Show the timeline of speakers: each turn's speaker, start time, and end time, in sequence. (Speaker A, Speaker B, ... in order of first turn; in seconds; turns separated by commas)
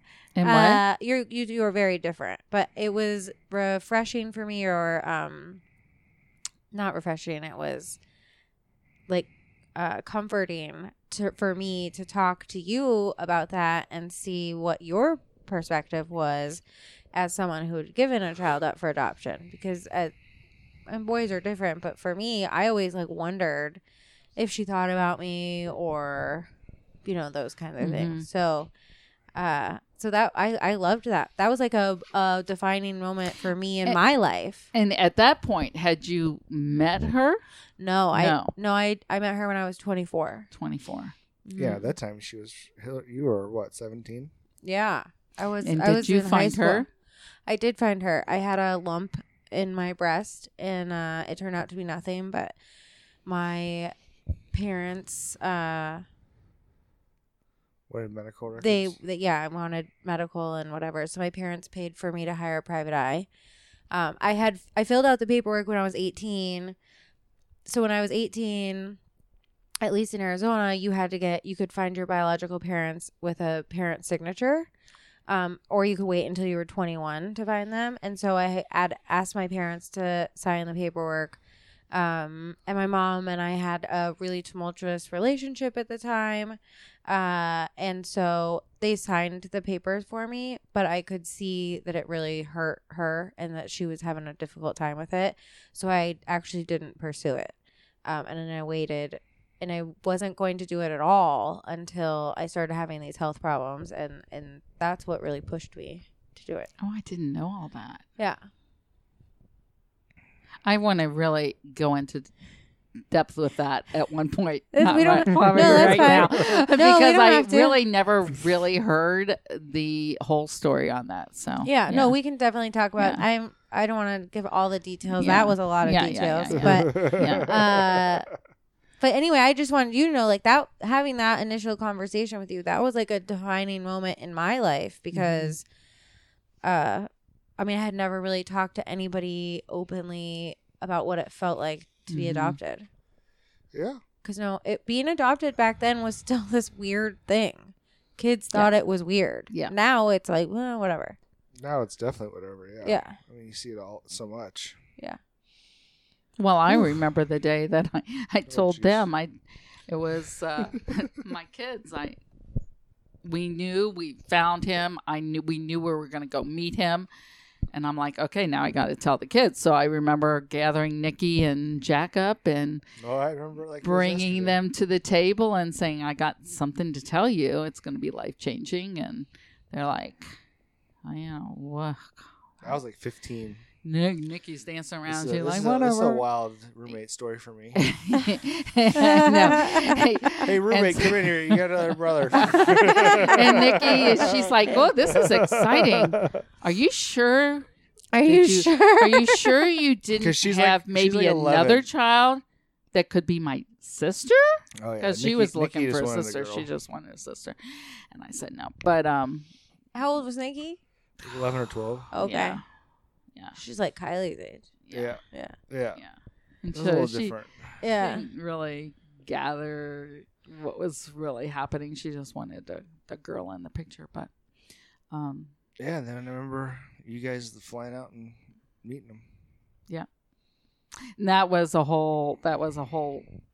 Speaker A: 0.4-0.8, Speaker B: 0.4-5.6, Speaker B: 6.7-8.0, Speaker B: 9.1-16.6, Speaker B: 17.1-20.1, Speaker B: 20.9-23.8, Speaker B: 24.4-26.5, Speaker B: 27.0-28.7, Speaker A: 27.8-28.2, Speaker B: 29.3-34.7, Speaker A: 34.7-37.4, Speaker B: 37.8-40.5, Speaker A: 38.1-38.5, Speaker A: 40.5-41.1, Speaker B: 41.5-41.9, Speaker C: 41.5-44.3, Speaker B: 44.6-46.9, Speaker A: 45.6-46.9, Speaker B: 47.5-52.5, Speaker B: 53.2-53.9, Speaker B: 54.5-56.0, Speaker C: 57.9-59.0, Speaker B: 58.6-63.3, Speaker B: 63.9-66.8, Speaker B: 67.7-69.0, Speaker B: 69.8-74.7, Speaker B: 75.3-81.4, Speaker B: 81.9-97.5, Speaker B: 98.0-106.7, Speaker A: 106.8-108.0, Speaker A: 110.6-112.3, Speaker A: 113.1-122.2, Speaker B: 114.7-117.8, Speaker B: 121.6-128.3, Speaker A: 125.2-127.6, Speaker C: 126.5-128.1, Speaker B: 129.0-135.6, Speaker A: 135.1-135.5, Speaker B: 136.6-142.9, Speaker A: 142.1-142.6, Speaker C: 143.7-144.0, Speaker B: 144.2-151.2, Speaker C: 151.6-154.8, Speaker B: 152.8-153.2, Speaker A: 156.4-159.3, Speaker C: 158.5-159.1, Speaker A: 159.9-162.2, Speaker A: 163.2-167.1, Speaker A: 167.7-172.8, Speaker C: 173.0-174.6, Speaker A: 173.8-180.3, Speaker A: 181.0-182.7, Speaker C: 182.6-183.6, Speaker A: 183.8-186.2, Speaker C: 185.1-187.8, Speaker A: 187.8-197.7, Speaker B: 188.9-190.0, Speaker C: 190.4-196.4, Speaker B: 192.4-193.5, Speaker B: 198.1-199.6, Speaker A: 198.2-202.4, Speaker C: 200.1-201.8, Speaker A: 202.9-209.5, Speaker C: 204.8-206.7, Speaker B: 209.9-210.8, Speaker C: 211.2-212.1, Speaker B: 212.1-212.6, Speaker A: 212.2-212.6, Speaker B: 213.6-214.7, Speaker A: 214.8-215.2, Speaker C: 214.9-216.0, Speaker A: 216.0-217.3, Speaker C: 216.7-217.7, Speaker B: 217.8-218.2, Speaker A: 218.0-224.3, Speaker A: 225.1-225.5, Speaker C: 225.8-229.2, Speaker A: 231.2-233.3